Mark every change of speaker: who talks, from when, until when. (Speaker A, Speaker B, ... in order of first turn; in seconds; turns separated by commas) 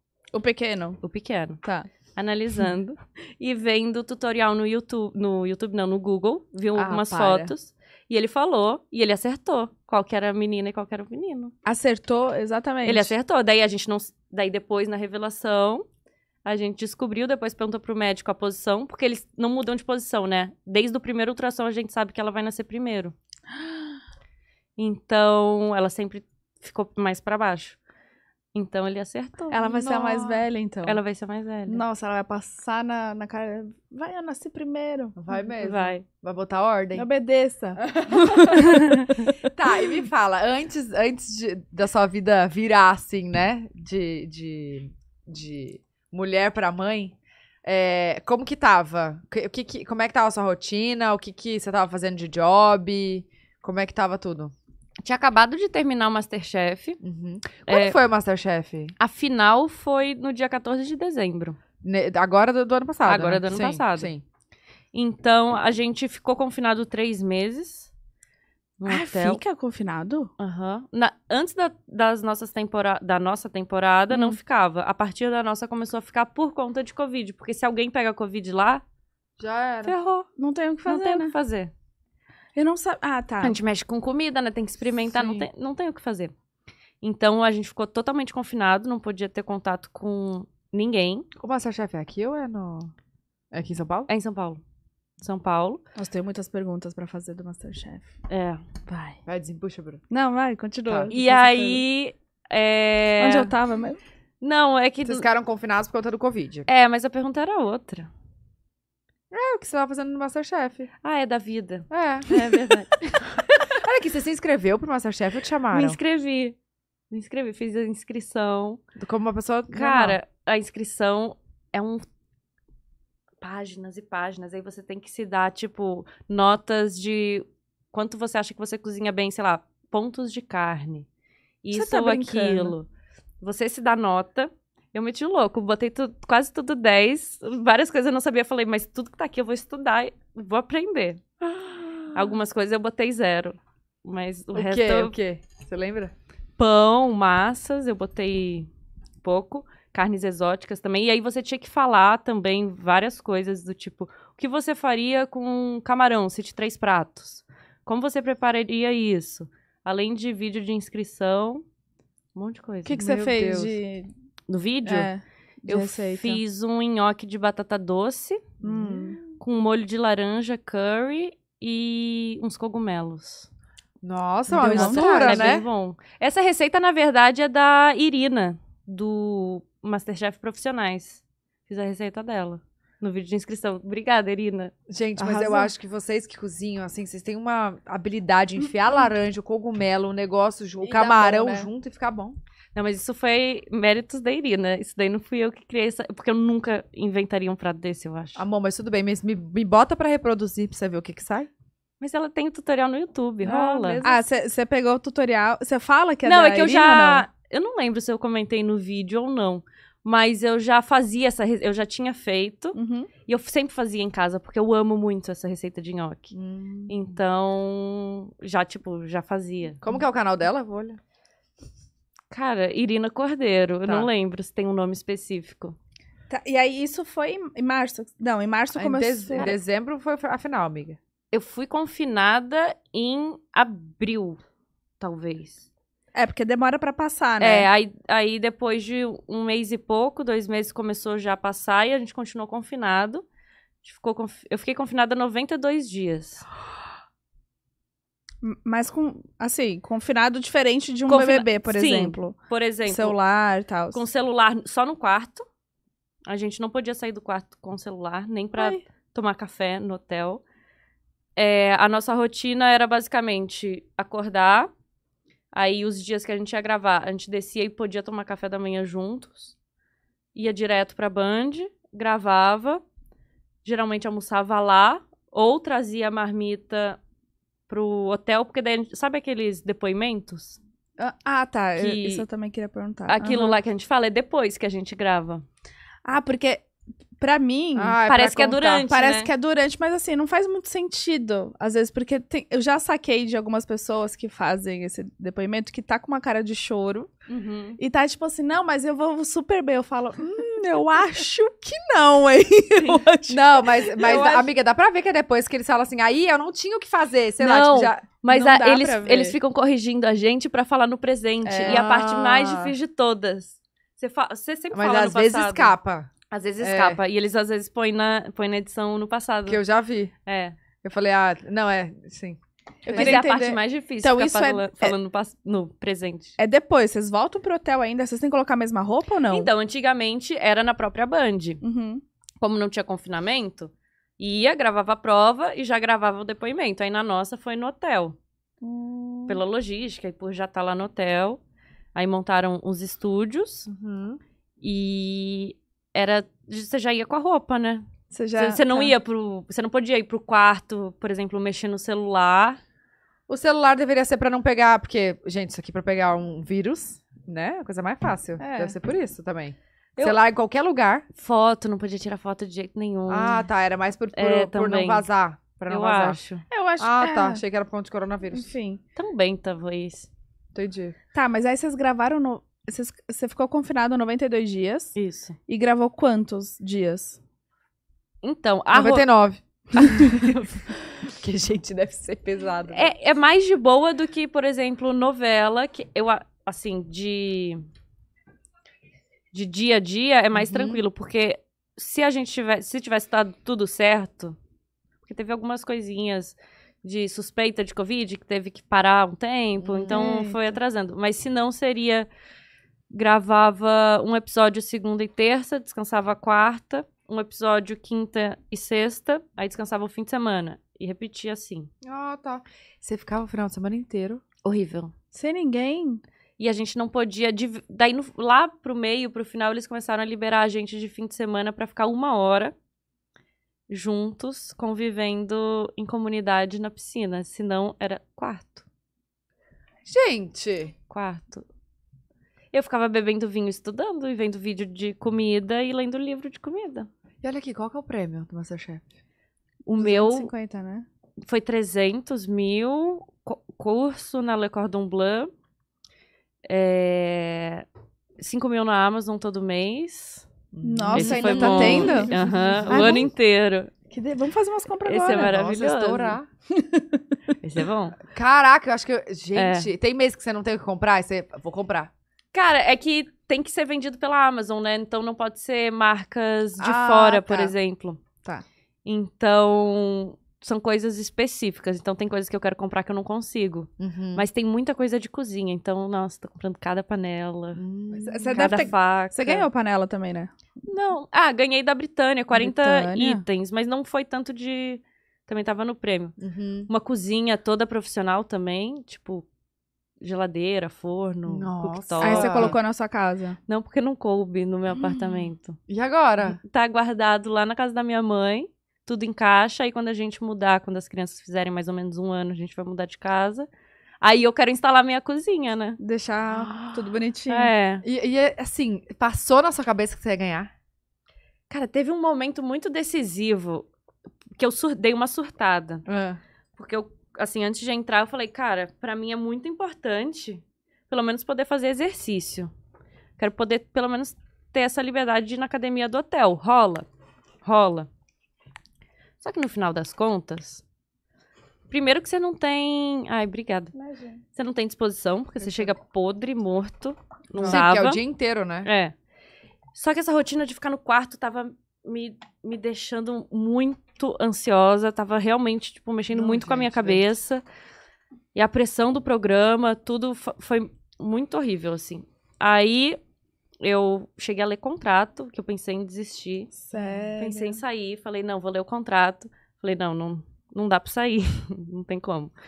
Speaker A: 0.3-1.0, Speaker B: 1.0-1.6, Speaker A: 1.6-1.9, Speaker B: 2.1-11.5, Speaker A: 6.8-7.5, Speaker A: 11.7-13.1, Speaker B: 12.8-15.9, Speaker B: 16.4-23.1, Speaker B: 24.8-27.8, Speaker B: 28.5-29.8, Speaker A: 29.5-31.0, Speaker C: 29.8-30.4, Speaker B: 30.9-31.8, Speaker A: 31.7-35.2, Speaker C: 35.2-37.1, Speaker B: 35.6-36.0, Speaker A: 36.9-39.2, Speaker C: 37.8-38.8, Speaker C: 39.3-54.5, Speaker B: 55.0-57.0, Speaker C: 57.0-59.0, Speaker B: 57.7-58.0, Speaker B: 59.0-61.6, Speaker C: 61.8-64.2, Speaker B: 63.0-64.1, Speaker B: 64.9-67.9, Speaker B: 68.8-69.4, Speaker A: 68.9-70.3, Speaker B: 70.4-78.8, Speaker A: 74.1-74.4, Speaker C: 79.4-79.9, Speaker B: 79.8-80.3, Speaker A: 80.4-81.3, Speaker B: 80.9-81.7, Speaker A: 82.6-83.5, Speaker B: 83.4-86.3, Speaker A: 85.2-85.4, Speaker B: 87.0-91.3, Speaker C: 91.4-92.9, Speaker C: 93.5-94.1, Speaker B: 94.1-94.6, Speaker B: 95.2-95.8, Speaker A: 96.0-98.1, Speaker B: 98.3-98.6, Speaker A: 98.9-99.2, Speaker C: 99.3-100.0, Speaker A: 100.1-101.8, Speaker C: 100.9-101.1, Speaker B: 101.1-103.5, Speaker A: 103.2-104.0, Speaker B: 104.4-105.3, Speaker C: 105.0-106.7, Speaker B: 106.7-108.1, Speaker C: 109.3-110.9, Speaker B: 111.0-113.4, Speaker C: 111.9-112.7, Speaker C: 113.7-116.0, Speaker B: 115.7-116.6, Speaker B: 117.1-118.8, Speaker C: 119.0-120.2, Speaker B: 119.7-122.1, Speaker B: 123.4-131.1, Speaker B: 131.6-132.9, Speaker A: 131.7-132.8, Speaker B: 133.4-141.2, Speaker C: 141.4-142.3, Speaker B: 142.1-145.2, Speaker C: 144.5-146.1, Speaker B: 146.6-148.7, Speaker B: 149.2-161.6, Speaker B: 162.3-163.0, Speaker A: 162.9-164.1, Speaker C: 163.0-163.8, Speaker B: 164.5-165.1, Speaker A: 164.8-166.4, Speaker B: 165.7-168.4, Speaker C: 168.6-169.4, Speaker A: 168.6-169.2, Speaker B: 169.4-173.5, Speaker C: 174.0-175.7, Speaker A: 174.5-175.5, Speaker B: 174.7-184.7, Speaker C: 184.9-192.4, Speaker A: 185.2-185.7, Speaker A: 190.8-191.7, Speaker B: 192.8-198.4, Speaker C: 198.4-201.5, Speaker B: 202.0-204.1, Speaker A: 203.4-207.3, Speaker B: 206.2-216.3, Speaker A: 212.8-213.1, Speaker C: 216.3-217.0, Speaker B: 216.9-219.8, Speaker C: 219.8-221.0, Speaker B: 222.3-225.8, Speaker A: 226.3-229.5, Speaker C: 228.8-231.0, Speaker B: 231.3-234.4, Speaker B: 235.0-235.7, Speaker A: 236.1-237.7, Speaker B: 237.4-243.2, Speaker B: 243.8-246.5, Speaker A: 248.4-254.0, Speaker B: 251.1-253.2, Speaker B: 253.9-255.5, Speaker B: 256.3-260.4, Speaker A: 258.6-258.8, Speaker B: 261.4-264.7, Speaker B: 265.5-269.5, Speaker B: 270.3-272.8, Speaker B: 273.6-277.0, Speaker B: 277.7-280.6, Speaker A: 281.0-283.6, Speaker B: 281.8-282.2, Speaker B: 283.1-285.4, Speaker A: 286.1-286.6, Speaker A: 287.2-288.0, Speaker C: 287.8-288.9, Speaker B: 288.1-289.3, Speaker A: 288.9-297.1, Speaker B: 297.3-297.8, Speaker A: 297.8-304.5, Speaker C: 303.3-308.1, Speaker B: 304.1-304.4, Speaker B: 307.4-315.7, Speaker A: 308.3-309.4, Speaker A: 311.4-311.8, Speaker C: 311.6-312.8, Speaker C: 314.7-317.0, Speaker B: 316.3-319.6, Speaker C: 319.5-320.1, Speaker B: 320.3-320.6, Speaker C: 320.8-323.3, Speaker A: 322.9-324.9, Speaker B: 322.9-326.4, Speaker A: 326.4-329.5, Speaker B: 329.3-331.6, Speaker A: 331.6-332.0, Speaker B: 332.4-338.2, Speaker A: 338.6-339.4, Speaker B: 339.3-341.4, Speaker B: 341.9-343.7, Speaker C: 343.7-344.2, Speaker B: 344.6-352.6, Speaker A: 348.1-348.9, Speaker C: 353.3-361.1, Speaker A: 358.4-358.8, Speaker B: 361.1-363.4, Speaker C: 363.1-366.2, Speaker B: 364.1-365.1, Speaker B: 365.7-366.4, Speaker A: 366.5-367.4, Speaker C: 366.8-368.5, Speaker A: 368.3-368.8, Speaker B: 369.0-370.1, Speaker C: 370.5-371.0, Speaker A: 371.1-375.0, Speaker B: 375.0-375.4, Speaker A: 375.5-377.2, Speaker B: 378.2-379.1, Speaker C: 378.7-380.3, Speaker B: 379.8-380.6, Speaker C: 380.9-382.9, Speaker B: 382.7-387.6, Speaker B: 389.3-394.4, Speaker C: 390.4-390.8, Speaker B: 395.0-402.1, Speaker C: 399.6-400.1, Speaker A: 399.9-400.6, Speaker B: 402.9-411.7, Speaker C: 411.8-414.2, Speaker B: 414.4-414.9, Speaker A: 415.1-416.0, Speaker B: 416.4-422.5, Speaker B: 423.7-428.7, Speaker C: 429.9-430.8, Speaker B: 430.9-431.5, Speaker B: 432.5-436.9, Speaker C: 437.2-438.9, Speaker B: 439.6-440.3, Speaker A: 439.8-440.9, Speaker B: 441.2-445.3, Speaker B: 446.5-447.7, Speaker B: 448.2-450.3, Speaker C: 450.5-453.1, Speaker A: 450.6-453.1, Speaker B: 450.9-453.7, Speaker A: 453.9-455.4, Speaker B: 454.9-456.2, Speaker C: 455.1-456.3, Speaker A: 456.5-457.0, Speaker B: 457.4-458.0, Speaker C: 458.0-461.9, Speaker B: 459.4-459.7, Speaker B: 462.3-468.0, Speaker A: 466.6-467.3, Speaker C: 467.3-467.5, Speaker B: 468.9-477.6, Speaker C: 473.8-474.2, Speaker C: 477.6-478.7, Speaker A: 477.9-480.3, Speaker B: 478.3-479.5, Speaker B: 480.7-486.2, Speaker A: 482.4-483.2, Speaker C: 486.2-486.7, Speaker B: 486.7-489.3, Speaker B: 490.0-492.6, Speaker C: 491.3-492.6, Speaker A: 492.0-493.4, Speaker B: 493.5-495.6, Speaker C: 495.7-496.4, Speaker B: 496.2-503.5, Speaker B: 504.0-505.8, Speaker A: 505.8-507.5, Speaker C: 506.3-506.9, Speaker B: 507.3-507.8, Speaker C: 507.8-510.5, Speaker B: 511.5-513.7, Speaker B: 514.4-515.9, Speaker C: 515.9-516.2, Speaker B: 516.6-522.5, Speaker B: 523.2-526.9, Speaker B: 527.4-527.9, Speaker B: 529.2-530.6, Speaker B: 531.7-533.7, Speaker A: 533.8-534.2, Speaker B: 534.4-538.0, Speaker C: 537.4-538.7, Speaker B: 538.6-538.9, Speaker B: 539.7-547.4, Speaker C: 546.1-547.0, Speaker B: 548.4-553.0, Speaker B: 553.6-556.6, Speaker A: 556.7-557.6, Speaker B: 557.2-562.3